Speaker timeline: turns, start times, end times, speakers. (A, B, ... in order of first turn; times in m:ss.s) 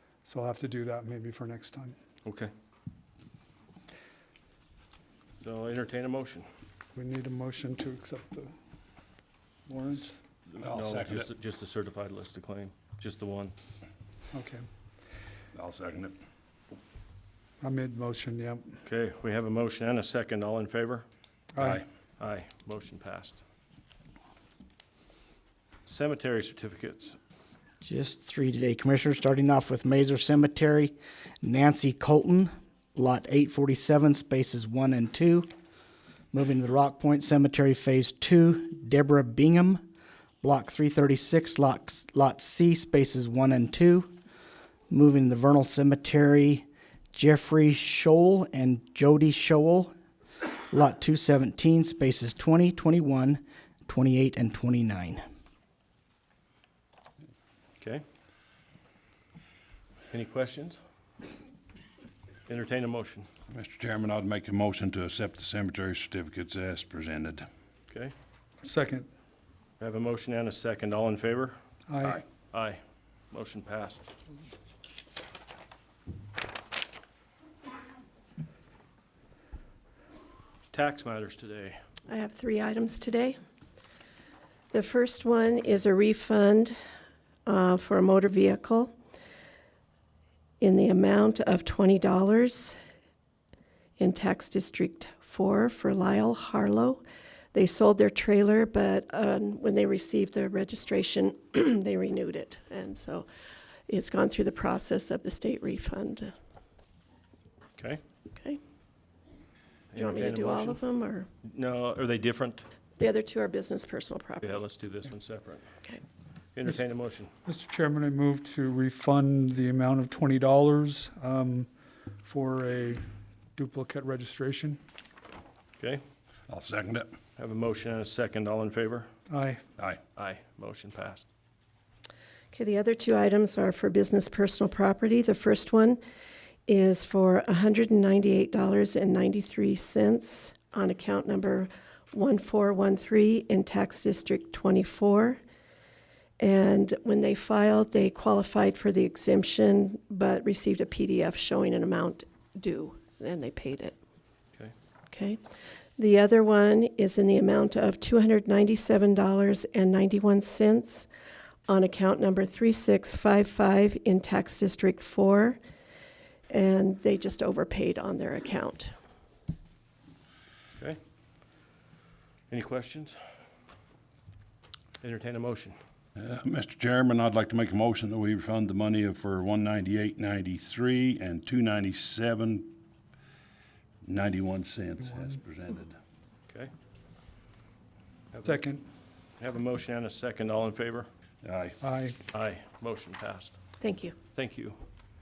0:00.2-0:02.0 A
0:02.2-0:02.5 B
0:05.4-0:06.5 B
0:07.0-0:08.5 A
0:09.7-0:10.2 A
0:10.5-0:13.5 B
0:10.6-0:11.3 C
0:14.3-0:14.7 A
0:15.6-0:16.2 C
0:17.6-0:18.7 A
0:18.9-0:21.0 B
0:21.6-0:21.8 A
0:21.6-0:21.8 C
0:22.2-0:23.4 B
0:25.9-0:27.2 B
0:27.8-0:35.5 D
0:36.3-0:39.8 D
0:40.4-0:44.1 D
0:44.9-0:49.9 D
0:50.7-0:55.2 D
1:00.1-1:00.8 B
1:02.5-1:03.3 B
1:03.5-1:07.5 C
1:08.6-1:09.1 A
1:09.8-1:11.6 B
1:11.9-1:12.2 A
1:12.5-1:12.8 B
1:13.3-1:14.1 B
1:20.7-1:21.8 B
1:22.1-1:23.4 E
1:24.7-1:26.8 E
1:27.5-1:28.9 E
1:30.6-1:32.8 E
1:34.0-1:43.3 E
1:43.9-1:46.3 E
1:49.9-1:50.8 B
1:50.0-1:51.3 E
1:51.4-1:52.6 B
1:53.0-1:54.6 E
1:54.4-1:55.7 B
1:56.6-1:57.3 B
1:57.5-2:01.7 A
2:02.2-2:03.0 A
2:03.6-2:04.8 A
2:06.5-2:07.1 C
2:07.4-2:09.1 B
2:09.3-2:09.6 A
2:10.2-2:11.3 B
2:12.5-2:16.0 E
2:16.7-2:25.4 E
2:26.4-2:34.0 E
2:35.1-2:35.4 E
2:36.0-2:41.1 E
2:41.7-2:45.6 E
2:46.5-2:48.9 E
2:52.5-2:53.2 B
2:55.0-2:55.8 B
2:56.2-3:02.7 C
3:04.0-3:06.0 C
3:05.1-3:05.4 A
3:08.3-3:08.6 B
3:08.4-3:08.8 A
3:09.4-3:11.1 B
3:11.4-3:11.8 C
3:11.8-3:12.2 A
3:12.3-3:13.6 B
3:13.8-3:14.2 E
3:14.4-3:14.8 B